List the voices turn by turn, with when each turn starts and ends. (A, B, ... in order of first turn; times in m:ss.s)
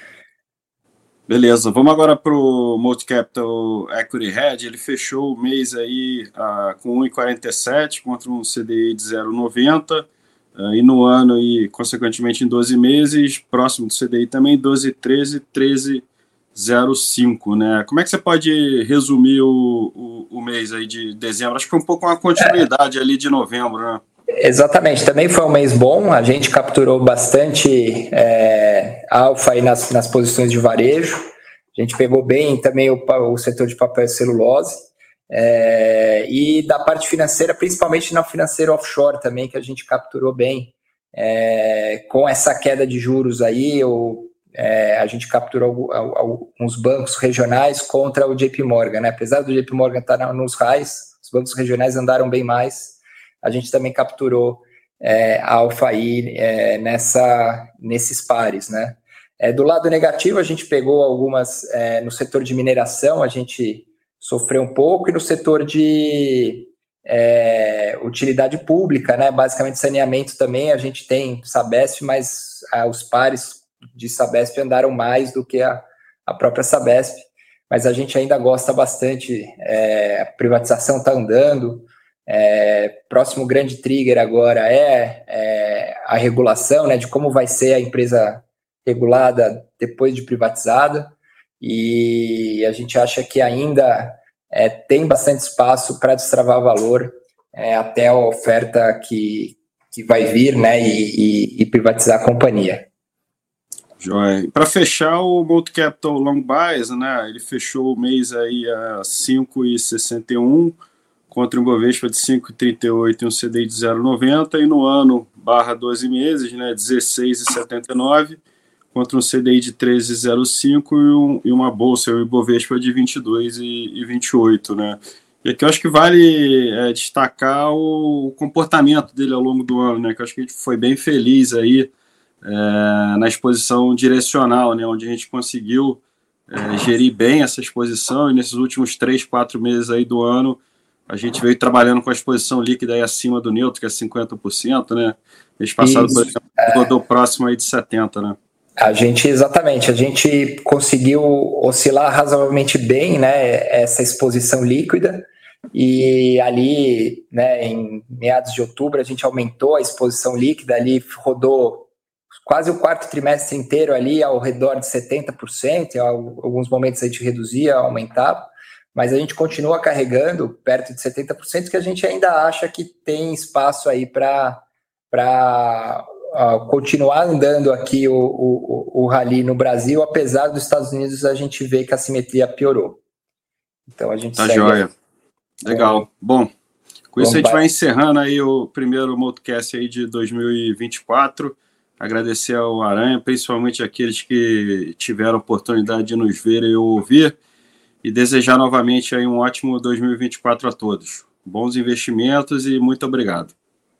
0:01.3-0:24.0 A
0:24.4-1:42.9 B
1:44.0-1:50.8 A
1:51.3-1:58.4 A
1:58.9-2:11.9 A
2:12.4-2:28.4 A
2:25.8-2:26.8 B
2:28.8-3:03.0 B
3:03.9-3:04.9 B
3:04.4-3:04.9 A
3:05.6-3:06.5 A
3:05.6-3:06.0 B
3:07.1-3:17.4 A
3:07.2-3:07.6 B
3:18.0-3:23.5 A